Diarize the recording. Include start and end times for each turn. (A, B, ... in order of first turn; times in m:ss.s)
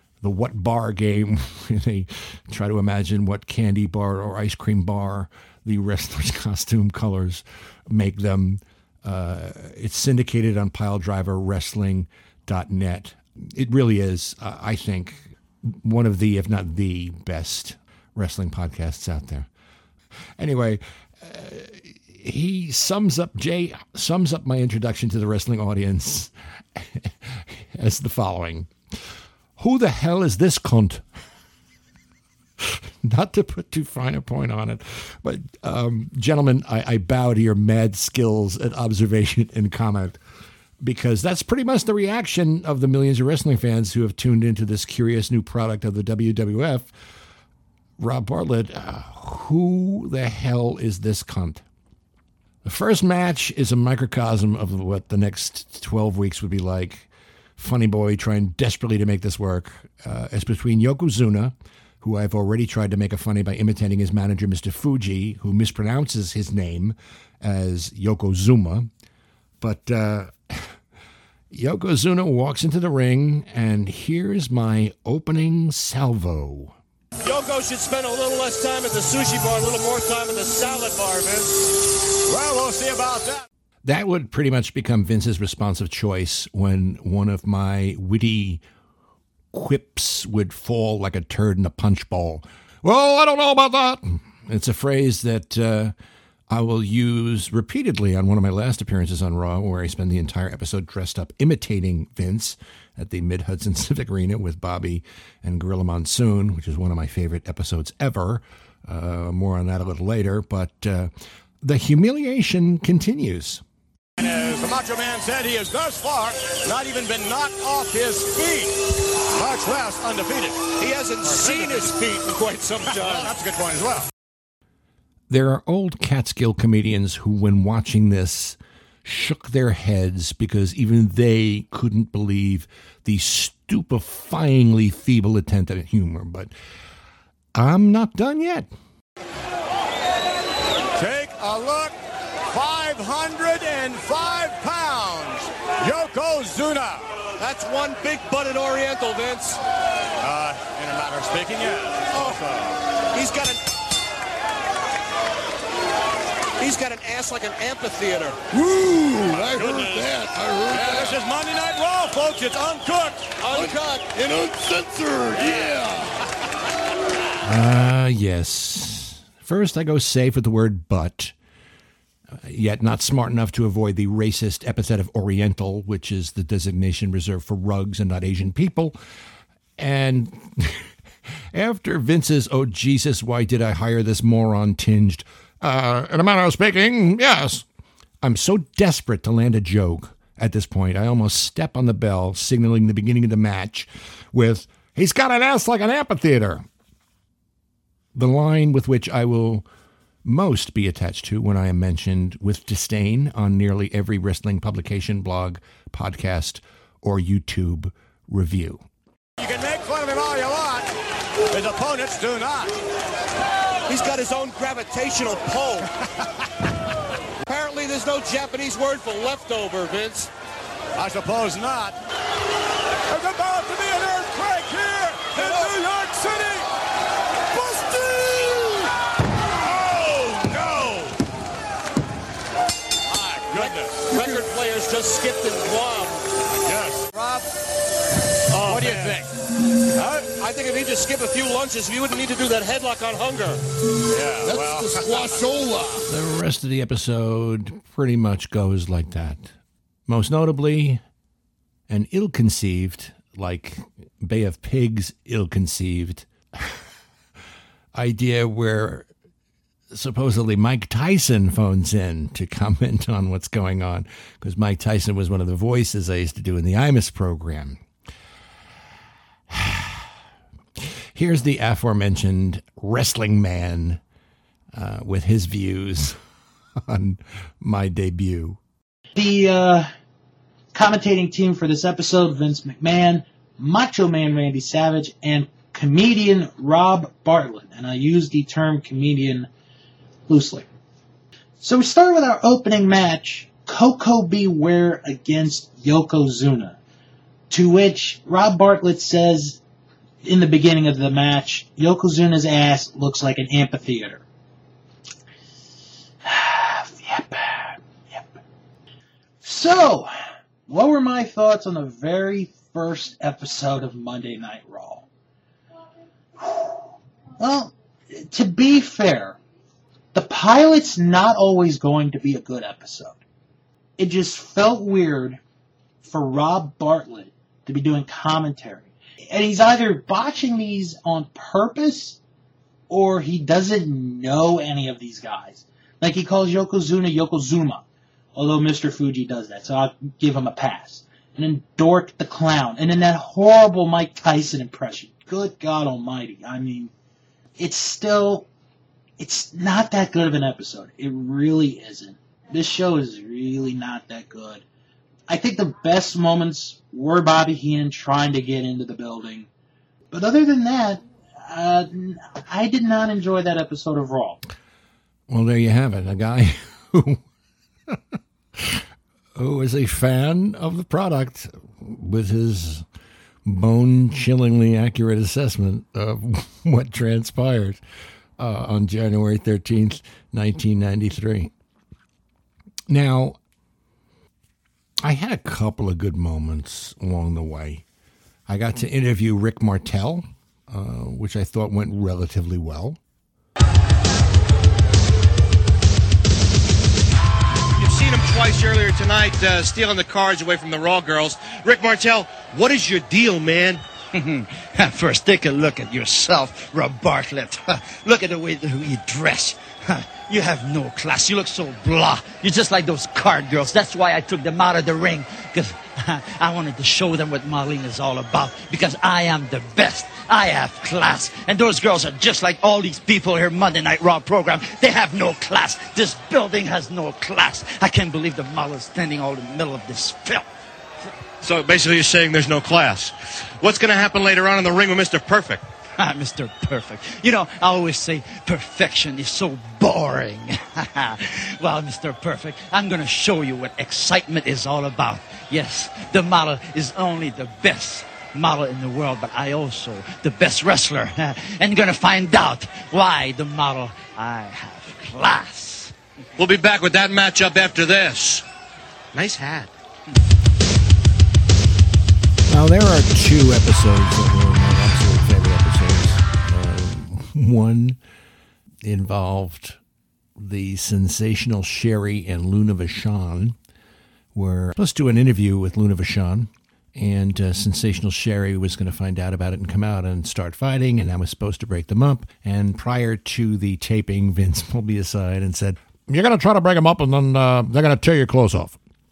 0:00.2-0:19.5 A
0:20.4-0:28.7 A
0:29.6-0:31.0 A
0:32.6-0:40.2 A
0:40.8-0:46.9 A
0:48.0-0:51.6 A
0:52.6-1:08.9 A
1:09.6-1:10.8 A
1:11.5-1:16.8 A
1:17.2-1:21.6 B
1:22.3-1:23.4 C
1:23.8-1:28.6 A
1:29.5-1:35.9 A
1:36.5-1:51.1 A
1:51.6-1:53.6 A
1:54.2-1:58.8 C
1:59.3-2:00.7 C
2:00.8-2:03.4 B
2:01.2-2:02.0 C
2:02.8-2:04.1 C
2:05.3-2:16.5 A
2:17.6-2:18.7 A
2:21.0-2:27.1 C
2:27.4-2:29.6 B
2:30.2-2:32.8 C
2:32.1-2:32.4 B
2:33.1-2:33.6 B
2:36.6-2:38.4 B
2:38.5-2:41.2 D
2:39.7-2:39.9 C
2:40.7-2:43.4 C
2:43.4-2:44.1 B
2:43.5-2:46.2 D
2:45.4-2:45.7 B
2:47.4-2:51.3 A
2:52.3-2:59.0 A
2:59.8-3:00.9 A
3:01.5-3:07.6 A
3:08.2-3:16.7 A
3:18.2-3:19.7 A
3:20.2-3:28.8 A
3:29.4-3:30.9 C
3:31.5-3:32.7 C
3:33.9-3:35.9 B
3:37.4-3:40.3 B
3:41.0-3:42.0 C
3:43.1-3:46.7 C
3:45.3-3:45.7 B
3:49.6-3:51.2 C
3:53.1-3:54.3 C
3:53.5-3:56.2 B
3:56.5-3:57.1 C
3:57.1-3:57.5 B
3:58.5-3:59.3 C
3:58.7-3:59.2 B
4:00.0-4:03.6 B
4:04.1-4:05.1 C
4:04.4-4:06.1 D
4:06.1-4:09.5 A
4:10.1-4:11.0 A
4:11.9-4:16.8 A
4:17.9-4:19.1 A
4:19.9-4:27.8 A
4:29.5-4:30.1 A
4:30.8-4:34.0 A
4:34.7-4:36.2 A
4:36.8-4:38.6 A
4:39.2-4:39.9 E
4:40.7-4:49.5 E
4:50.3-4:50.7 E
4:51.6-4:56.8 E
4:57.5-4:59.6 E
5:00.2-5:04.2 E
5:06.2-5:08.4 E
5:09.4-5:10.1 E
5:10.7-5:15.1 E
5:16.4-5:16.8 E
5:17.4-5:19.4 E
5:20.1-5:23.2 E
5:24.0-5:25.4 E
5:26.0-5:32.2 E
5:32.9-5:37.8 E
5:38.4-5:46.9 E
5:47.6-5:48.5 E
5:49.2-5:54.6 E
5:55.3-5:59.5 E
6:00.1-6:04.4 E
6:05.3-6:07.2 A
6:08.6-6:08.8 A
6:09.4-6:12.8 A
6:13.4-6:17.8 A
6:18.4-6:21.5 A
6:22.9-6:23.4 A
6:25.0-6:27.8 A
6:28.5-6:33.0 A
6:37.8-6:43.8 F
6:44.1-7:10.5 G
7:11.4-7:15.7 F
7:16.0-7:35.9 G
7:36.4-7:38.4 F
7:39.1-7:39.7 F
7:42.5-7:48.0 A
7:48.8-7:49.8 A
7:50.4-7:53.6 A
7:54.3-8:08.8 A